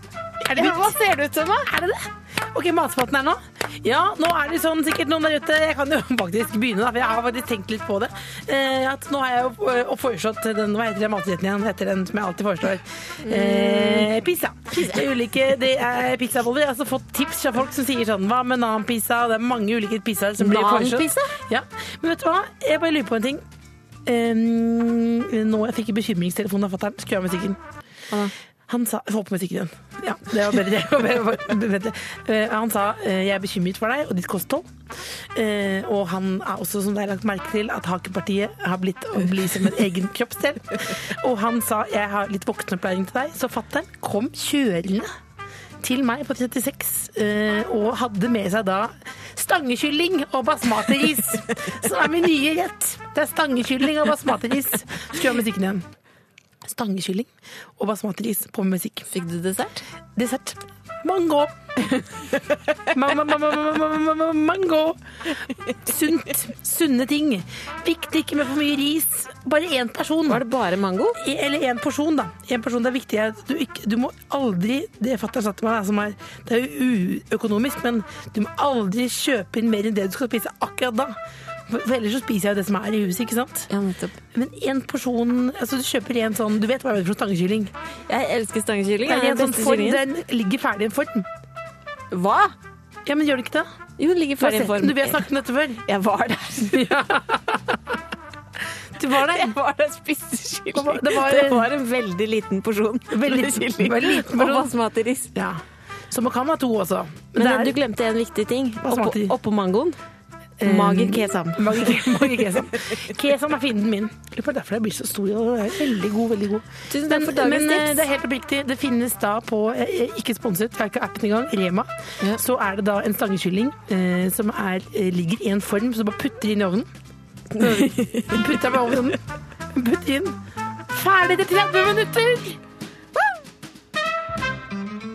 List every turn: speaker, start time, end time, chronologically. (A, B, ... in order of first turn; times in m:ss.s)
0:00.4-0:01.0 A
0:00.5-0:01.7 B
0:01.7-0:23.4 A
0:13.2-0:14.1 B
0:14.7-0:15.0 B
0:20.4-0:21.3 B
0:24.0-0:27.6 A
0:28.7-0:45.1 A
0:45.8-0:55.9 A
0:56.6-0:59.1 A
0:59.1-0:59.8 B
1:00.2-1:02.2 A
1:02.9-1:05.0 A
1:05.7-1:10.4 A
1:10.3-1:11.2 B
1:11.2-1:23.7 A
1:23.7-1:24.2 B
1:24.3-1:27.7 A
1:28.1-1:30.0 B
1:29.0-1:31.3 A
1:32.1-1:32.6 B
1:33.1-1:33.7 A
1:34.0-1:35.3 B
1:34.4-1:35.8 A
1:35.8-1:36.9 B
1:36.6-1:38.0 A
1:39.0-1:39.5 A
1:39.1-1:45.3 B
1:40.7-1:41.7 A
1:43.1-1:44.7 A
1:45.4-1:47.8 A
1:47.4-1:50.0 B
1:48.8-1:49.3 A
1:50.6-2:06.9 A
1:50.6-1:52.5 B
1:56.9-1:58.0 B
2:07.6-2:09.2 A
2:07.6-2:08.4 B
2:09.7-2:10.4 A
2:10.9-2:12.6 A